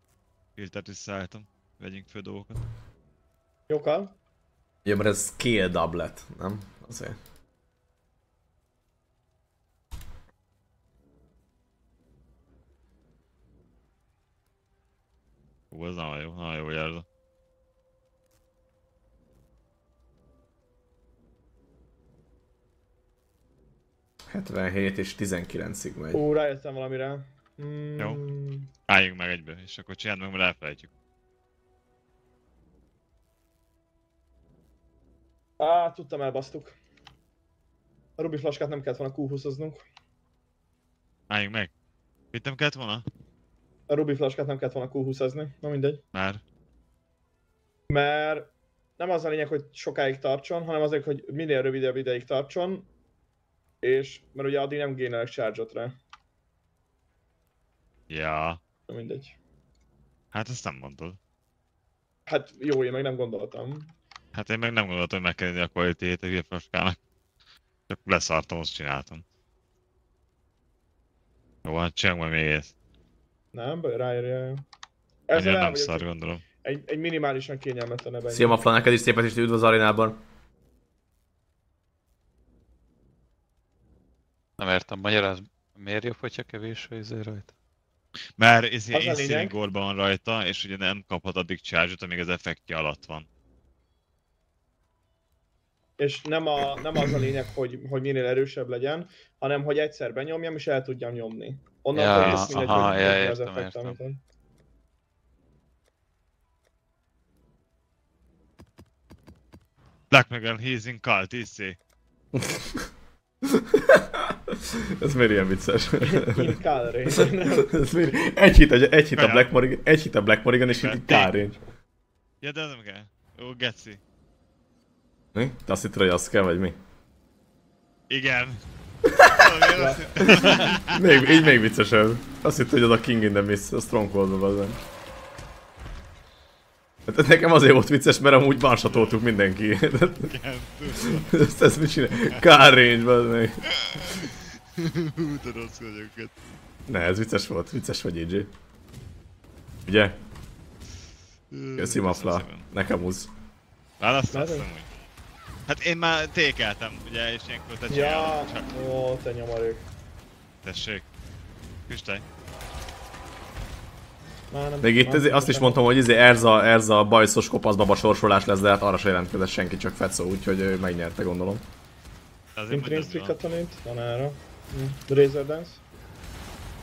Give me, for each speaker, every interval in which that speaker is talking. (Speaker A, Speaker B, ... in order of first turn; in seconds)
Speaker A: 0.6-2.6, 15.7-17.1, 28.9-30.9, 41.3-41.7, 42.3-43.0, 46.1-46.4, 58.1-58.6, 60.3-61.2, 64.3-67.0, 67.9-69.2, 71.6-72.7, 75.3-76.4, 88.4-93.3, 102.1-103.2, 110.1-111.8, 119.2-119.5, 120.8-121.3, 122.4-124.0, 128.1-128.6, 129.2-131.5, 138.9-139.2, 140.2-141.3, 143.7-146.3, 151.5-152.7, 154.0-154.9, 155.7-158.7, 160.6-161.1, 161.9-162.2, 172.6-173.6
Speaker B: 3.7-4.1, 26.1-28.7, 35.6-36.8, 38.2-39.9, 43.9-46.0, 47.9-52.9, 53.8-56.0, 58.9-59.4, 62.3-63.9, 73.5-74.6, 75.3-76.0, 76.6-78.6, 88.9-89.6, 96.0-104.2, 116.0-117.7, 129.8-130.8, 154.3-154.7, 157.9-159.8, 164.5-165.8, 172.7-175.8
Speaker C: 4.8-7.2, 24.3-26.2, 78.3-80.2, 112.3-112.9, 113.4-116.6, 117.1-121.6, 125.3-126.8, 129.1-129.5, 130.2-134.8, 137.1-140.3, 141.1-143.7, 146.9-148.5, 149.9-150.2, 151.8-153.3, 164.8-171.6
Speaker D: 84.6-87.5, 101.9-104.0